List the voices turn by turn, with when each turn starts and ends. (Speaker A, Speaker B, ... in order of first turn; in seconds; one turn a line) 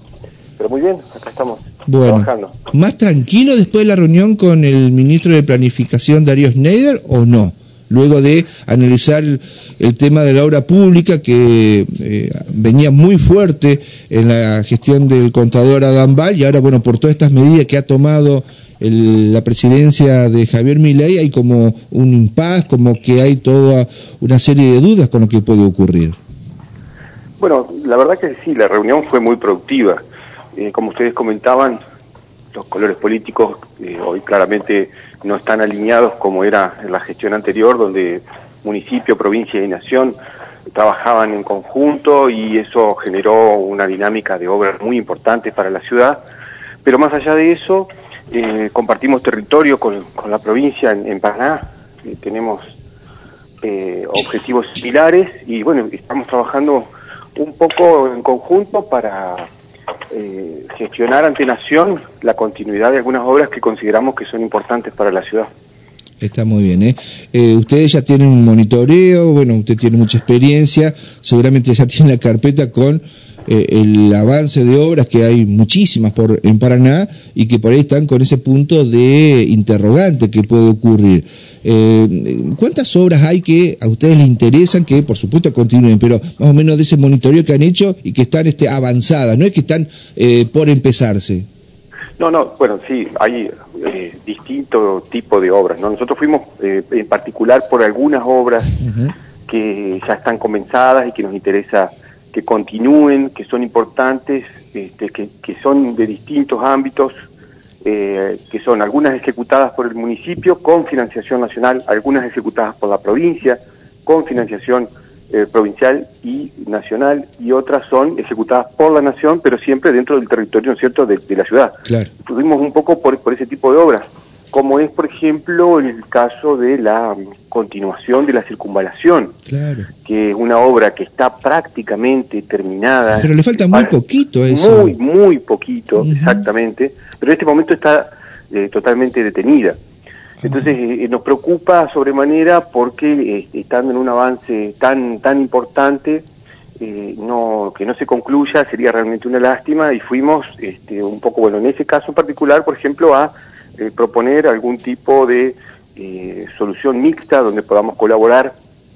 Speaker A: 0.6-2.6
Speaker B: 1.9-26.1
Speaker A: 27.4-30.0
Speaker A: 30.5-31.8
Speaker A: 32.5-40.2
Speaker A: 40.7-46.2
Speaker A: 46.8-52.8
Speaker A: 53.6-59.5
Speaker A: 60.1-65.5
Speaker B: 66.2-91.5
Speaker A: 92.2-98.8
Speaker B: 98.8-99.1
Speaker A: 99.5-107.1
Speaker A: 107.8-129.3
Speaker B: 129.5-129.9
Speaker A: 130.0-133.9
Speaker B: 133.2-134.9
Speaker A: 134.5-139.8
Speaker B: 136.0-136.4
Speaker A: 140.4-146.2
Speaker A: 146.8-158.5